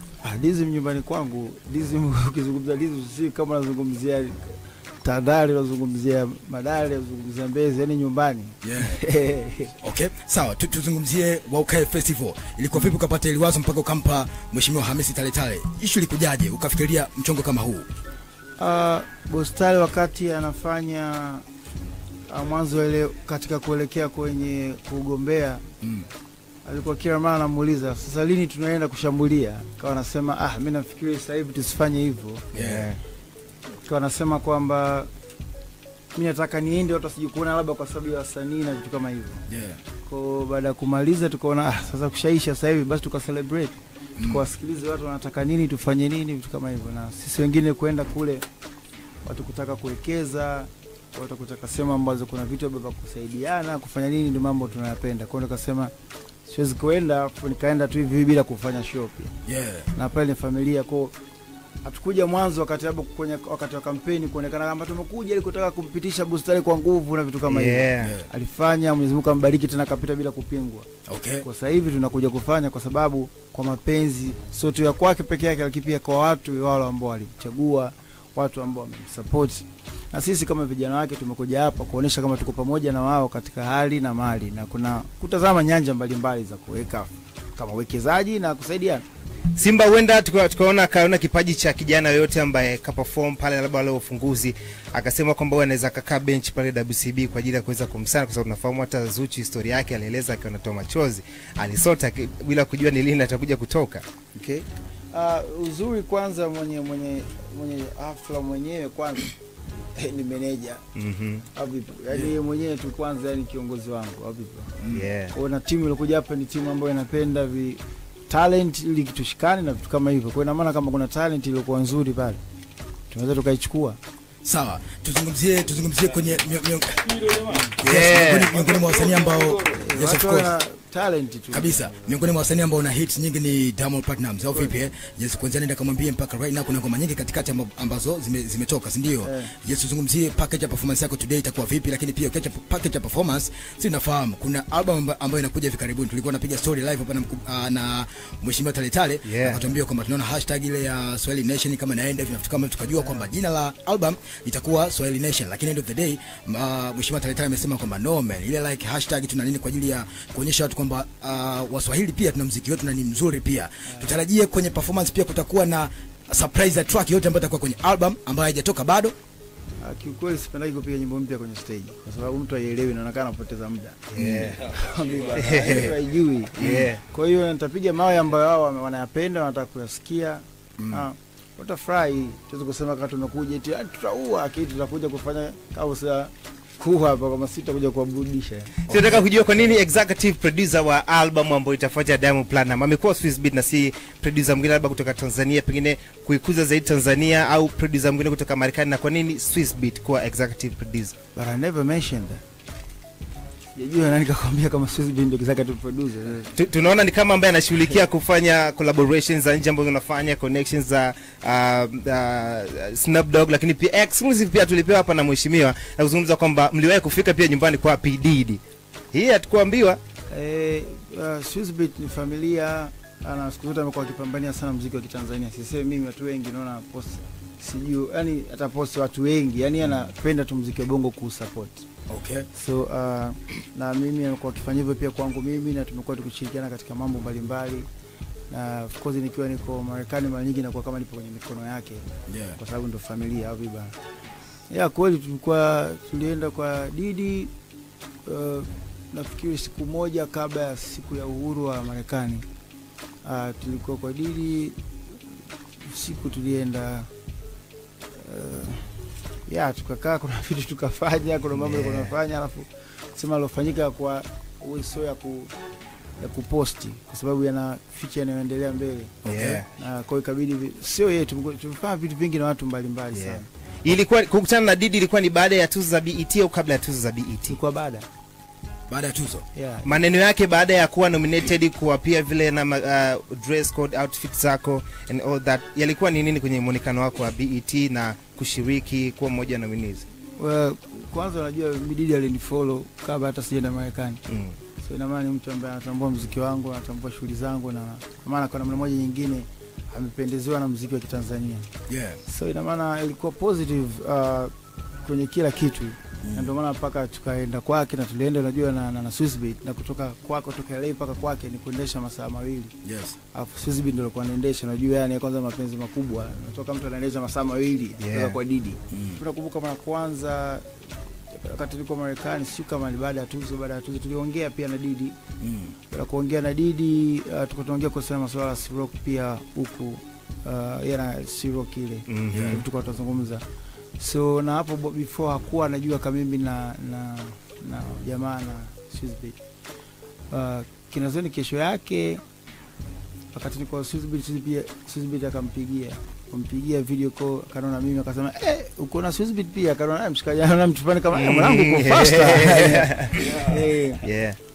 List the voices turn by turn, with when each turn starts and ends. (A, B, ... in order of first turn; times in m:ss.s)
0:00.2-0:09.8 A
0:08.6-0:09.0 B
0:09.8-0:17.9 B
0:18.6-0:21.4 A
0:22.3-0:25.6 A
0:25.8-0:26.1 B
0:26.6-0:32.5 A
0:32.5-0:32.9 B
0:32.5-0:33.0 C
0:33.8-0:35.1 A
0:36.2-0:39.4 A
0:39.5-0:39.8 B
0:40.0-0:48.4 A
0:44.2-0:44.4 B
0:49.2-0:55.9 A
0:56.4-0:59.3 A
0:59.5-0:59.9 B
0:59.9-1:01.1 A
1:01.8-1:10.9 A
1:07.5-1:08.1 C
1:08.0-1:08.3 B
1:11.1-1:11.4 B
1:11.4-1:29.0 A
1:29.6-1:44.0 C
1:44.3-1:49.3 A
1:50.0-1:50.8 A
1:51.0-1:51.4 C
1:51.5-2:02.4 A
1:54.8-1:55.1 B
1:54.9-1:55.3 C
2:03.1-2:04.0 A
2:04.4-2:10.5 B
2:07.8-2:08.6 C
2:09.6-2:11.9 A
2:11.5-2:49.2 B
2:19.2-2:19.5 A
2:29.2-2:29.7 C
2:49.8-3:08.9 A
2:54.1-2:54.6 C
2:54.2-2:54.6 B
2:55.3-2:56.0 C
2:56.6-2:57.0 C
2:56.6-2:56.9 B
3:00.8-3:01.0 B
3:08.9-3:21.2 C
3:08.9-3:09.2 B
3:21.4-3:22.4 A
3:23.8-3:26.6 A
3:26.6-3:38.6 C
3:39.1-3:40.0 C
3:40.3-3:51.9 A
3:52.1-3:52.5 B
3:52.5-3:57.9 A
3:58.5-4:02.1 A
4:02.3-4:02.6 B
4:02.6-4:03.9 A
4:04.7-4:07.5 A
4:08.3-4:12.4 A
4:13.2-4:14.8 A
4:15.8-4:17.1 A
4:18.2-4:19.0 A
4:19.5-4:25.5 A
4:21.6-4:22.1 C
4:26.2-4:33.5 A
4:29.2-4:29.6 B
4:29.2-4:29.7 C
4:33.1-4:37.6 C
4:37.5-4:38.1 A
4:38.9-4:39.4 B
4:39.5-4:39.9 A
4:39.8-4:50.0 C
4:50.4-4:54.2 A
4:54.3-4:54.6 C
4:54.8-5:01.7 A
5:01.9-5:02.2 B
5:02.3-5:04.5 A
5:05.0-5:12.7 A
5:06.2-5:06.5 B
5:12.8-5:13.2 B
5:13.3-5:20.7 A
5:18.0-5:18.4 C
5:18.9-5:19.2 B
5:21.3-5:25.2 A
5:25.4-5:25.8 B
5:25.9-5:33.4 A
5:32.1-5:32.6 C
5:32.3-5:32.6 B
5:34.0-5:39.4 A
5:40.3-5:42.2 A
5:43.3-5:54.1 A
5:51.1-5:53.3 C
5:52.6-5:53.5 B
5:54.0-5:54.4 C